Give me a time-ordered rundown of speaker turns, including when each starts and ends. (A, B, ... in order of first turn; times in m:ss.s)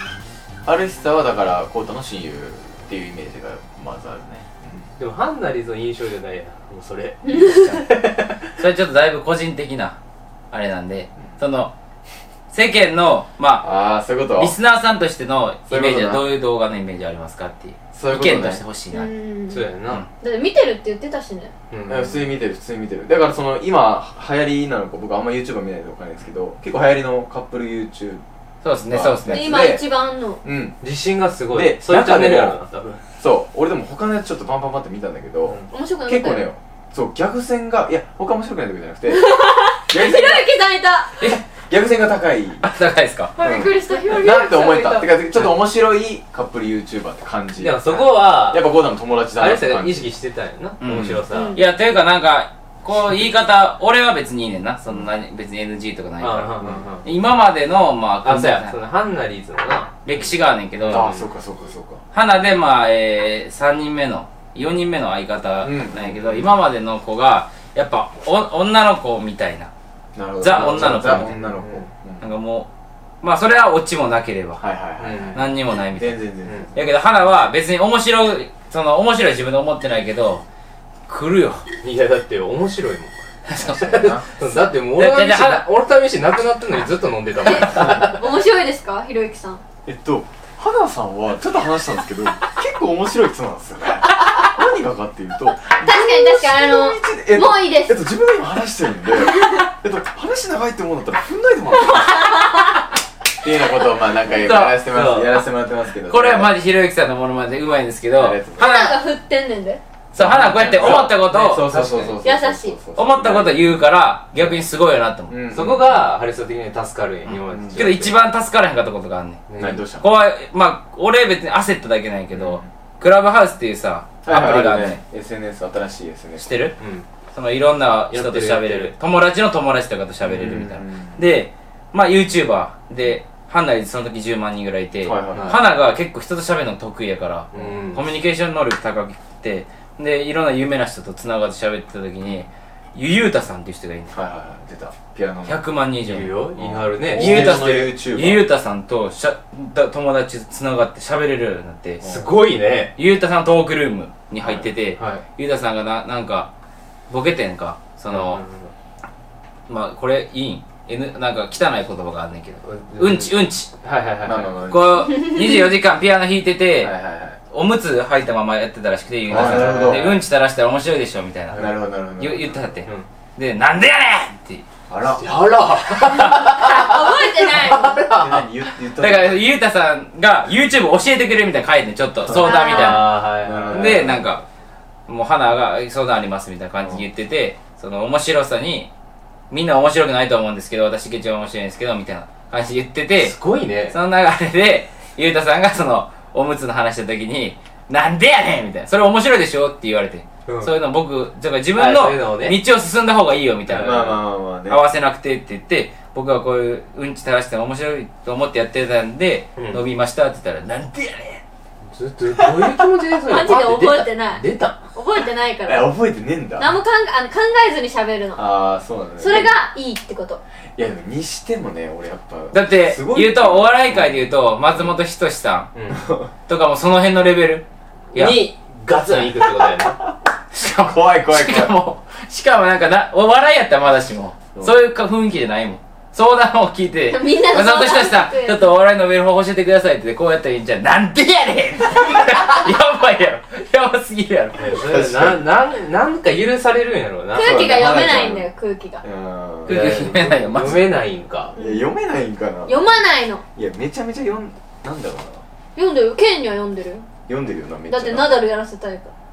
0:00.6-0:04.8 A
0:05.0-0:08.4 B
0:07.2-0:07.8 C
0:07.3-0:07.8 D
0:08.6-0:10.0 D
0:10.5-0:11.7 D
0:12.5-0:13.7 D
0:13.6-0:14.5 A
0:14.4-0:19.1 D
0:15.7-0:16.2 A
0:17.9-0:18.6 A
0:18.9-0:21.5 C
0:19.5-0:20.0 B
0:21.7-0:22.2 B
0:21.8-0:28.2 A
0:28.6-0:29.7 D
0:28.8-0:29.9 A
0:29.3-0:30.4 C
0:30.4-0:30.8 A
0:30.8-0:33.0 B
0:31.5-0:32.6 A
0:33.2-0:40.4 A
0:35.7-0:36.5 C
0:39.1-0:41.2 C
0:41.2-0:42.7 A
0:42.6-0:43.3 D
0:43.4-0:45.1 C
0:43.4-0:50.1 A
0:47.6-0:48.7 B
0:49.4-0:51.6 B
0:50.8-0:58.7 D
0:51.3-0:51.6 C
0:56.2-0:57.0 B
0:58.2-1:00.2 B
1:00.0-1:01.2 D
1:00.8-1:01.2 B
1:00.9-1:02.0 A
1:02.1-1:09.7 D
1:05.6-1:06.5 A
1:10.1-1:12.3 A
1:10.4-1:11.4 D
1:10.5-1:11.9 B
1:12.2-1:12.7 D
1:13.2-1:14.6 D
1:14.6-1:16.9 A
1:15.0-1:15.4 B
1:15.3-1:16.2 D
1:16.7-1:20.4 D
1:21.1-1:21.7 D
1:21.8-1:28.2 B
1:23.5-1:24.1 D
1:23.6-1:24.2 A
1:24.9-1:25.6 D
1:27.5-1:29.6 C
1:29.8-1:42.4 A
1:35.8-1:38.0 C
1:41.9-1:42.7 C
1:43.4-1:46.5 A
1:44.3-1:44.8 D
1:44.9-1:45.3 B
1:46.1-1:49.0 D
1:48.2-1:48.9 A
1:48.5-1:49.8 C
1:50.1-1:51.9 D
1:50.2-1:53.9 A
1:50.3-1:52.2 B
1:52.2-1:52.8 C
1:52.9-1:55.4 D
1:55.3-1:56.1 A
1:55.5-1:58.1 B
1:57.2-1:59.4 D
1:57.5-1:57.9 A
1:59.5-1:59.8 B
1:59.6-2:00.1 A
2:00.0-2:05.0 D
2:02.3-2:02.6 A
2:04.2-2:06.5 A
2:06.4-2:06.8 D
2:06.8-2:07.0 B
2:07.3-2:24.2 D
2:08.1-2:08.9 B
2:10.2-2:11.2 A
2:15.0-2:15.6 A
2:15.3-2:15.6 B
2:17.5-2:18.1 B
2:24.1-2:25.6 A
2:25.4-2:26.4 D
2:26.0-2:27.6 B
2:26.6-2:28.5 A
2:27.0-2:32.2 D
2:32.0-2:32.9 B
2:33.0-2:36.5 D
2:34.4-2:34.7 A
2:35.0-2:35.2 B
2:37.1-2:38.4 D
2:38.1-2:38.7 B
2:39.7-2:43.7 D
2:42.6-2:44.6 B
2:44.2-2:45.2 A
2:44.7-2:46.9 D
2:46.8-2:47.4 A
2:47.5-2:54.6 D
2:49.3-2:50.2 A
2:49.3-2:50.2 B
2:51.5-2:52.8 A
2:54.9-2:55.2 A
2:55.2-2:58.4 B
2:56.1-2:56.4 D
2:56.4-2:58.0 C
2:58.1-2:59.5 A
2:59.0-3:04.4 D
3:02.2-3:02.6 A
3:02.4-3:03.1 C
3:02.6-3:04.2 B
3:03.3-3:04.3 A
3:05.1-3:08.9 D
3:09.5-3:13.3 D
3:13.2-3:14.0 B
3:13.9-3:31.4 D
3:20.5-3:20.7 B
3:21.7-3:22.6 B
3:23.7-3:24.1 B
3:23.7-3:24.8 A
3:29.6-3:29.8 B
3:32.0-3:34.8 B
3:33.2-3:35.9 C
3:35.6-3:36.7 A
3:36.6-3:38.5 C
3:38.4-3:39.6 A
3:39.2-3:40.4 C
3:40.8-3:44.9 A
3:42.5-3:45.7 D
3:45.7-3:46.0 B
3:45.9-3:46.3 A
3:46.5-3:48.5 D
3:48.1-3:50.0 B
3:50.5-4:04.6 D
3:50.6-3:51.8 A
3:57.1-3:58.7 C
4:04.6-4:07.7 B
4:04.8-4:05.4 A
4:07.3-4:09.0 C
4:07.3-4:08.5 A
4:09.0-4:09.8 A
4:09.6-4:11.0 D
4:09.7-4:11.5 B
4:11.5-4:13.0 A
4:11.6-4:11.9 C
4:12.6-4:13.4 C
4:13.5-4:15.4 A
4:15.8-4:17.0 C
4:17.3-4:18.4 A
4:17.9-4:19.1 C